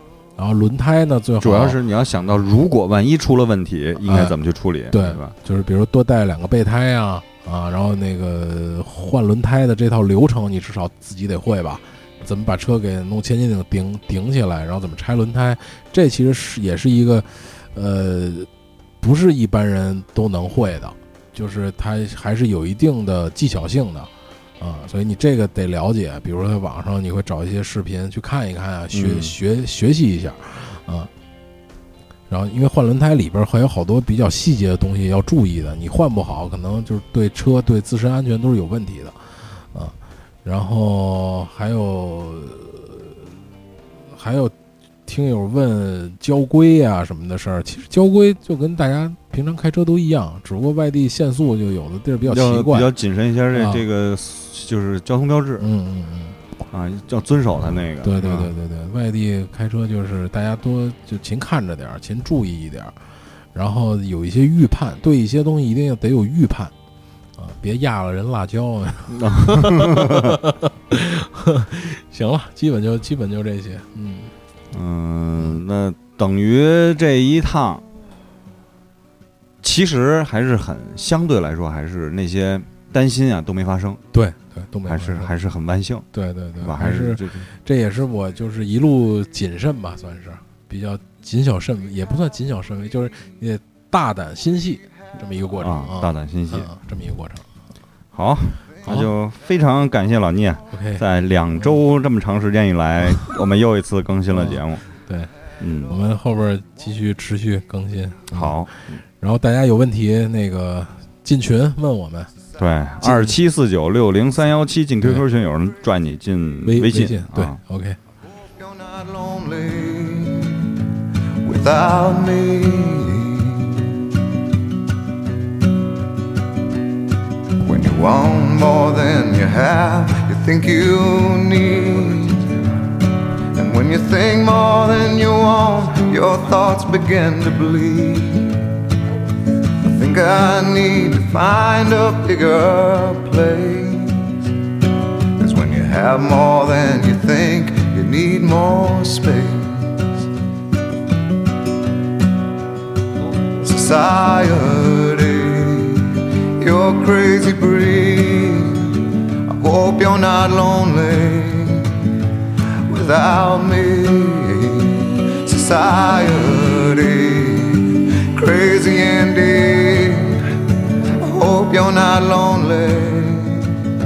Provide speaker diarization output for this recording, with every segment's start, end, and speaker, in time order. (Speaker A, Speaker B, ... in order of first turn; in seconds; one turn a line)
Speaker A: 0.4-1.8
Speaker B: 1.4-5.3
Speaker A: 4.0-4.4
Speaker A: 4.9-18.5
Speaker A: 19.0-31.1
Speaker B: 28.9-29.3
Speaker A: 32.3-43.2
Speaker A: 44.1-44.5
Speaker A: 45.1-52.9
Speaker B: 52.3-55.6
Speaker A: 53.5-53.8
Speaker A: 55.6-56.4
Speaker B: 56.7-58.5
Speaker A: 58.0-62.9
Speaker A: 63.5-66.7
Speaker A: 67.4-74.3
Speaker B: 69.1-70.4
Speaker B: 74.7-77.8
Speaker B: 79.6-84.0
Speaker A: 84.1-85.3
Speaker B: 84.9-86.0
Speaker A: 86.1-97.5
Speaker B: 86.6-87.5
Speaker B: 95.6-96.7
Speaker B: 98.1-104.8
Speaker A: 100.7-101.0
Speaker A: 101.5-101.8
Speaker A: 104.3-105.3
Speaker B: 105.6-105.9
Speaker A: 105.9-108.7
Speaker B: 108.3-109.0
Speaker A: 109.2-112.3
Speaker B: 112.6-117.6
Speaker A: 113.0-113.4
Speaker A: 116.6-118.0
Speaker C: 118.5-120.8
Speaker C: 121.4-124.0
Speaker C: 127.6-132.6
Speaker C: 133.5-138.7
Speaker C: 139.8-144.5
Speaker C: 145.4-150.3
Speaker C: 153.5-162.1
Speaker C: 162.9-170.6
Speaker C: 171.2-173.8